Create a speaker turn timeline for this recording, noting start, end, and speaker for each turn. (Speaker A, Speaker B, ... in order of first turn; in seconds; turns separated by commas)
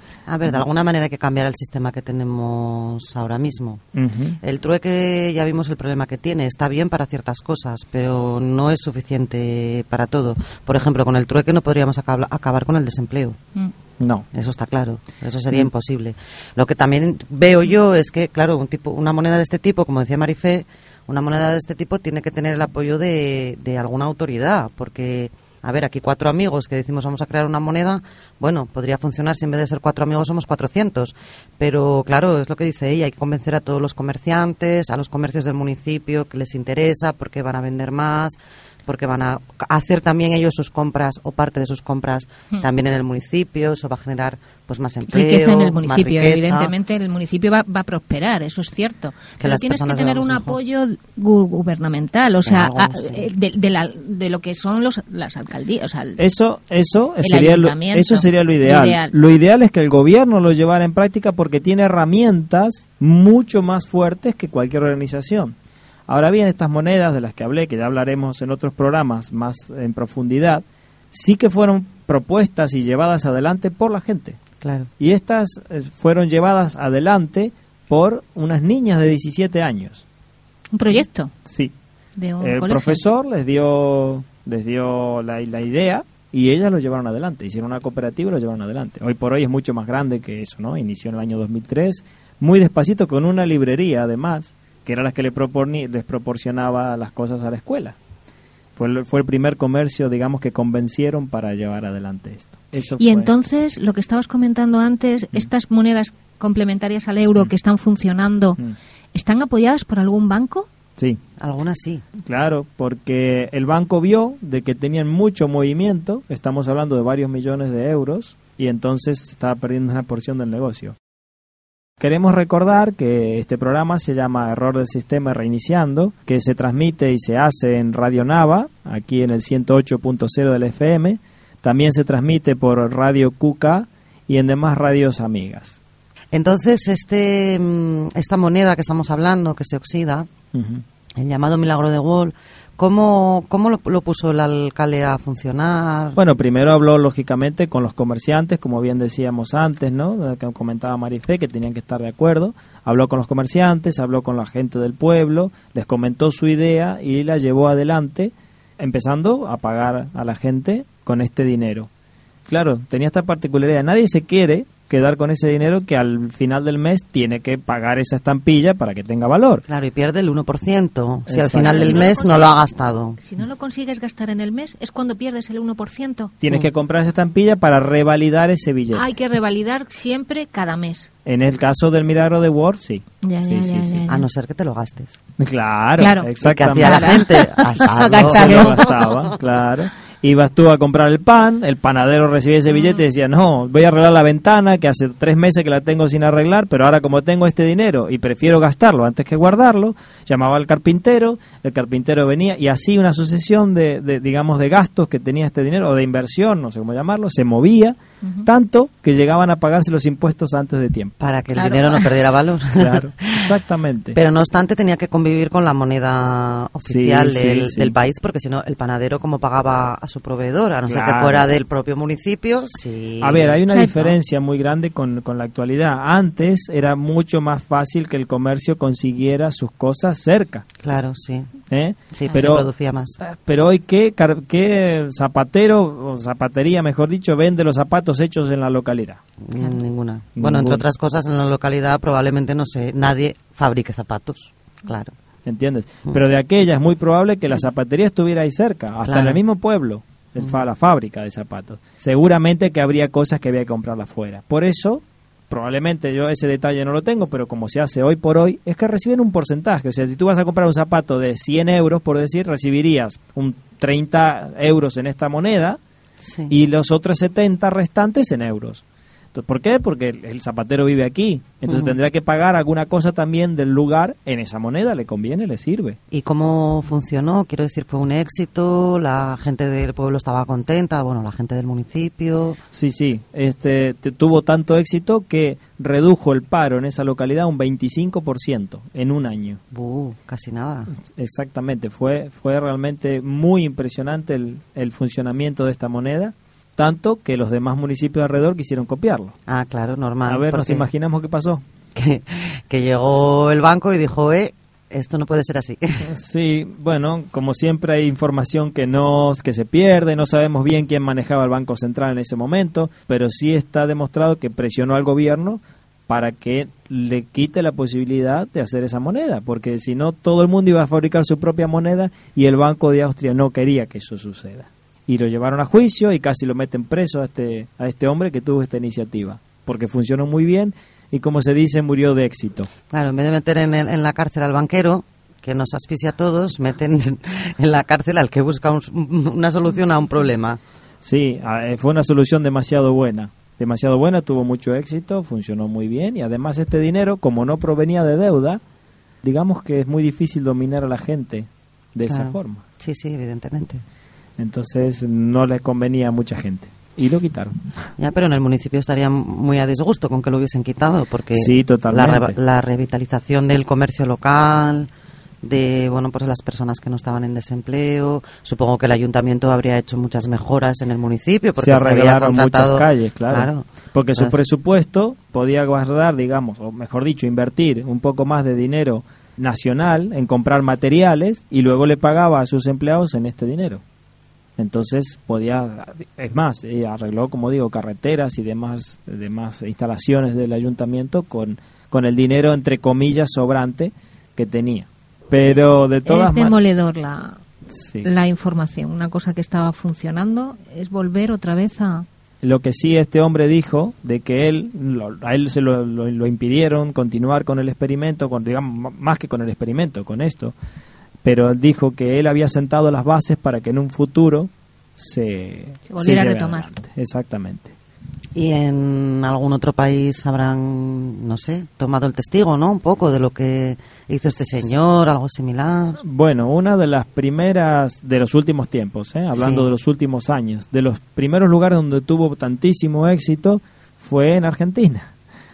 Speaker A: 0.3-3.8, Speaker B: 3.9-4.4, Speaker A: 4.4-13.4, Speaker B: 14.0-14.3, Speaker A: 14.3-46.7, Speaker C: 45.1-56.2, Speaker A: 49.4-50.6, Speaker A: 52.5-53.3, Speaker B: 56.2-65.5, Speaker C: 57.2-59.1, Speaker B: 66.1-74.4, Speaker A: 74.6-74.9, Speaker B: 75.0-80.0, Speaker C: 80.7-81.3, Speaker B: 80.8-81.7, Speaker C: 82.2-83.0, Speaker B: 82.4-98.0, Speaker B: 98.8-103.3, Speaker C: 103.0-108.6, Speaker C: 109.1-110.7, Speaker A: 111.4-112.0, Speaker B: 112.2-121.0, Speaker B: 122.0-135.8, Speaker A: 136.3-140.3, Speaker B: 140.5-140.8, Speaker A: 141.2-146.2, Speaker B: 146.2-161.9, Speaker B: 162.4-169.6, Speaker A: 169.7-173.2, Speaker B: 171.3-172.1, Speaker C: 171.5-172.6, Speaker C: 173.2-176.3, Speaker B: 176.4-179.1, Speaker C: 178.9-181.1, Speaker B: 181.2-184.0, Speaker C: 183.2-184.3, Speaker A: 184.1-185.2, Speaker B: 185.4-187.2, Speaker C: 186.0-188.8, Speaker A: 186.4-189.1, Speaker B: 188.0-211.1, Speaker A: 211.2-213.5, Speaker C: 211.5-212.1, Speaker B: 212.7-214.2, Speaker A: 214.1-224.1, Speaker B: 216.8-217.9, Speaker B: 220.9-221.5, Speaker B: 223.2-230.6, Speaker C: 223.7-223.9, Speaker A: 230.8-231.5, Speaker B: 231.7-239.2, Speaker A: 232.1-233.2, Speaker A: 239.4-245.1, Speaker C: 239.5-239.8, Speaker B: 240.4-240.8, Speaker B: 245.4-265.8, Speaker A: 249.1-249.4, Speaker A: 266.2-266.5, Speaker B: 266.5-268.8, Speaker B: 269.3-276.0, Speaker A: 271.7-271.9, Speaker A: 276.1-282.6, Speaker B: 282.7-289.6, Speaker A: 289.7-290.9, Speaker B: 291.0-299.3, Speaker A: 299.5-300.8, Speaker B: 300.2-301.6, Speaker A: 301.9-306.1, Speaker B: 306.0-332.7, Speaker A: 332.9-340.6, Speaker B: 341.0-348.6, Speaker B: 349.2-352.6, Speaker A: 352.1-353.8, Speaker B: 354.4-357.5, Speaker A: 358.0-364.9, Speaker B: 361.3-362.4, Speaker A: 365.4-374.4, Speaker B: 371.6-383.8, Speaker B: 384.6-396.6, Speaker C: 396.0-397.4, Speaker B: 397.7-398.1, Speaker C: 398.0-402.1, Speaker B: 402.4-410.5, Speaker B: 411.2-417.7, Speaker C: 415.9-416.7, Speaker A: 418.3-426.0, Speaker B: 424.4-424.7, Speaker B: 426.0-435.1, Speaker A: 429.3-429.7